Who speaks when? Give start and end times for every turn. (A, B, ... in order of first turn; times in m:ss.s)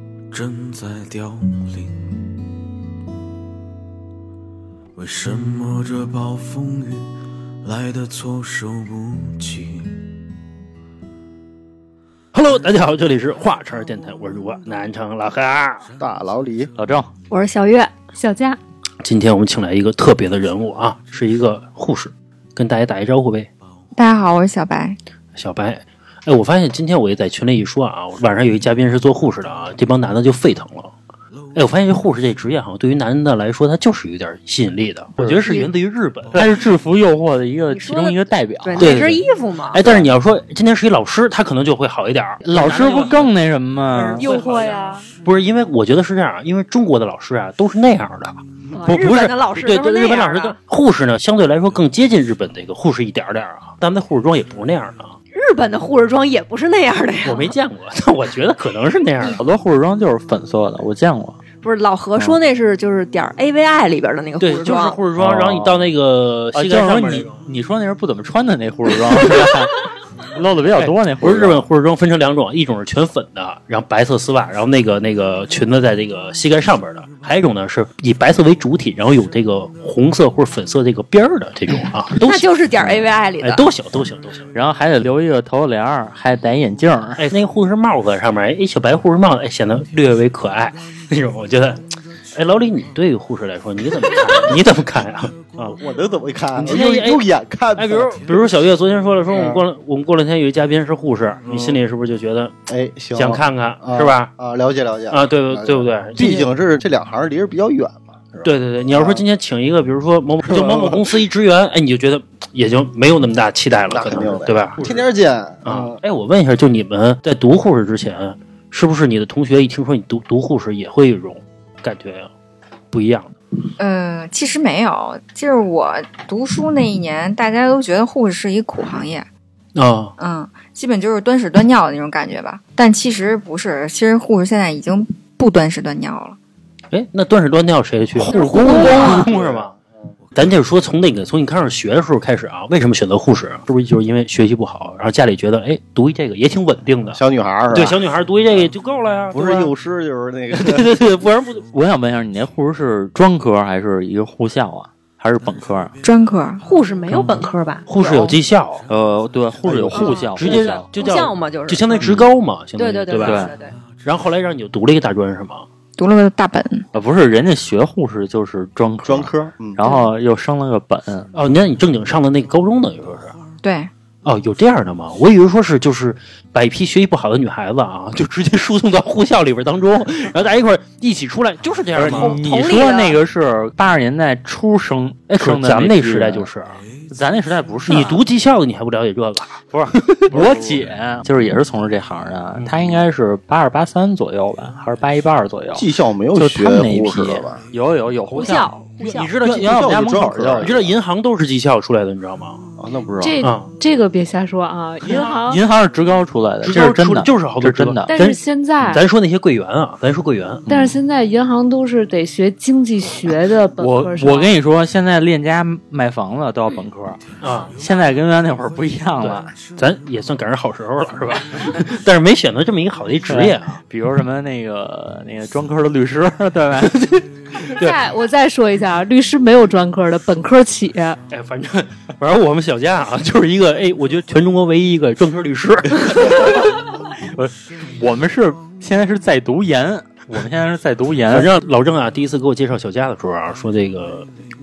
0:00.3-0:02.2 A
0:05.0-0:07.1 A
0:07.6-0:09.9 A
0:12.3-0:15.9 B
0:16.0-0:16.7 C
0:16.8-0:17.1 D
0:17.3-0:17.9 E
0:18.2-0:18.6 F
0:19.0-0:23.5 B
0:24.0-0:25.0 G
0:25.4-0:30.9 B
0:31.6-0:36.6 B
0:35.2-0:35.5 D
0:36.3-0:39.0 D
0:37.7-0:40.0 E
0:38.8-0:43.3 B
0:42.4-0:44.3 D
0:44.2-0:45.0 E
0:44.2-0:44.7 B
0:44.2-0:45.0 F
0:45.2-0:55.2 B
0:48.7-0:50.6 E
0:55.3-0:57.5 E
0:57.2-0:59.4 B
0:59.4-1:01.4 D
1:01.6-1:05.0 E
1:04.4-1:07.4 B
1:05.2-1:05.9 D
1:06.5-1:09.8 D
1:10.3-1:11.7 D
1:10.8-1:24.5 B
1:22.2-1:23.7 E
1:24.5-1:27.3 D
1:27.2-1:35.8 B
1:35.8-1:38.2 C
1:36.6-1:42.6 B
1:39.3-1:39.6 C
1:41.5-1:41.8 C
1:42.7-1:49.2 C
1:43.1-1:44.3 B
1:45.1-1:46.5 B
1:48.4-1:55.1 B
1:50.4-1:51.2 C
1:53.9-1:56.0 C
1:55.6-2:02.3 B
2:02.9-2:03.3 B
2:03.8-2:09.3 G
2:09.8-2:10.1 B
2:10.2-2:16.4 G
2:16.9-2:19.7 B
2:18.2-2:19.2 D
2:18.6-2:19.8 C
2:18.8-2:19.2 E
2:18.8-2:19.2 F
2:20.4-2:29.7 B
2:27.1-2:28.7 C
2:29.3-2:31.0 C
2:30.5-2:31.6 B
2:31.6-2:35.9 D
2:36.0-2:36.6 G
2:36.6-2:38.4 E
2:37.1-2:37.5 D
2:37.9-2:38.8 B
2:38.9-2:40.9 D
2:39.7-2:40.0 C
2:39.9-2:42.2 E
2:40.4-2:43.5 B
2:42.0-2:42.3 D
2:42.8-2:43.8 E
2:43.2-2:43.5 D
2:44.0-2:45.7 B
2:46.0-2:46.8 G
2:46.9-2:51.3 D
2:49.0-2:49.8 C
2:51.3-2:53.4 B
2:53.6-2:53.9 G
2:54.2-3:02.4 B
3:02.0-3:06.5 D
3:02.1-3:03.2 E
3:05.3-3:06.8 B
3:07.1-3:08.2 D
3:07.9-3:10.6 B
3:09.7-3:18.7 D
3:12.6-3:13.0 B
3:15.7-3:17.6 C
3:18.3-3:19.3 E
3:18.4-3:20.0 B
3:19.4-3:20.8 D
3:19.6-3:20.9 C
3:20.6-3:22.6 B
3:22.8-3:23.4 C
3:23.2-3:25.6 F
3:23.4-3:23.7 B
3:25.1-3:25.4 B
3:25.1-3:28.2 D
3:26.6-3:30.6 B
3:28.1-3:29.0 F
3:30.7-3:31.0 D
3:30.7-3:34.5 F
3:33.8-3:37.2 D
3:37.4-3:37.8 B
3:37.8-3:39.5 D
3:39.2-3:43.8 B
3:43.3-3:47.2 D
3:47.0-3:48.0 B
3:47.7-3:51.2 F
3:51.3-3:56.7 B
3:56.2-3:56.7 D
3:57.2-4:01.5 D
4:01.3-4:04.3 B